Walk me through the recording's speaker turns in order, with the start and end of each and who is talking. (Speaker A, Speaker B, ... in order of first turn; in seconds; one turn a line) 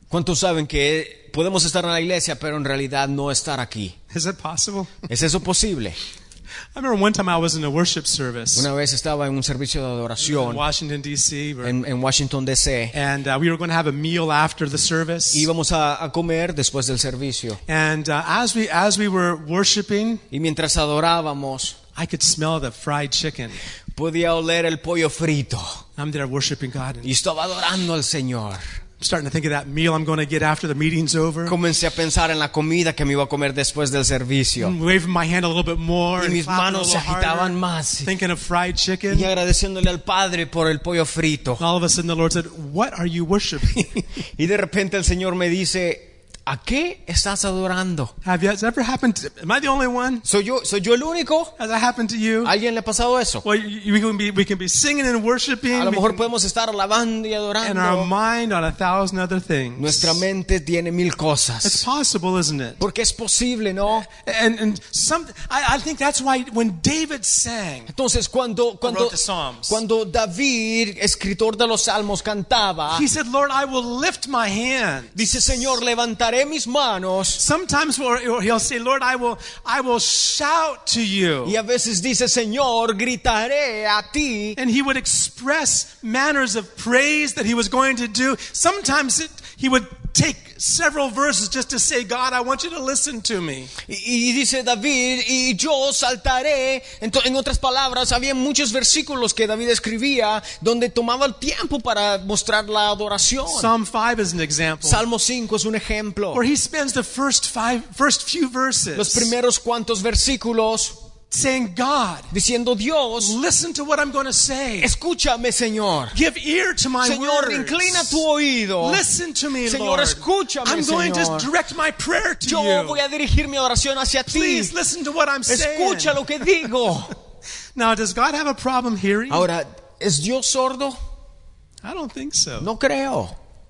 Speaker A: 0.1-4.0
Speaker B: 4.1-5.1
Speaker A: 5.1-6.0
Speaker B: 6.8-8.7
Speaker A: 8.6-10.6
Speaker B: 10.2-11.8
Speaker A: 11.6-12.9
Speaker B: 12.9-15.5
Speaker A: 15.3-17.6
Speaker B: 17.7-20.2
Speaker A: 20.3-21.8
Speaker B: 22.0-23.6
Speaker A: 23.9-25.8
Speaker B: 26.0-27.1
Speaker A: 27.0-28.6
Speaker B: 29.0-31.6
Speaker A: 31.5-34.8
Speaker B: 34.6-39.3
Speaker A: 36.2-38.1
Speaker A: 39.1-41.6
Speaker B: 41.6-44.1
Speaker A: 44.4-48.1
Speaker B: 48.2-50.2
Speaker A: 50.2-51.5
Speaker B: 51.6-52.5
Speaker A: 52.4-53.5
Speaker B: 53.4-56.2
Speaker A: 55.7-58.1
Speaker B: 57.6-60.2
Speaker A: 59.8-61.9
Speaker B: 61.6-62.8
Speaker A: 62.8-64.1
Speaker B: 64.2-67.9
Speaker A: 67.9-73.0
Speaker B: 68.8-69.8
Speaker B: 72.9-75.2
Speaker A: 75.2-77.4
Speaker B: 77.4-81.6
Speaker A: 81.4-84.6
Speaker B: 84.6-93.7
Speaker A: 93.8-103.7
Speaker B: 103.5-105.0
Speaker A: 104.8-106.4
Speaker B: 106.3-109.3
Speaker A: 109.0-111.0
Speaker B: 111.3-112.3
Speaker A: 112.3-113.4
Speaker B: 113.2-114.9
Speaker A: 114.8-116.2
Speaker B: 116.1-118.2
Speaker A: 117.0-119.0
Speaker B: 118.8-123.0
Speaker A: 119.6-121.5
Speaker A: 122.4-124.8
Speaker B: 124.3-126.2
Speaker A: 125.5-127.2
Speaker B: 127.8-129.5
Speaker A: 129.3-131.0
Speaker B: 131.8-132.7
Speaker A: 132.6-133.4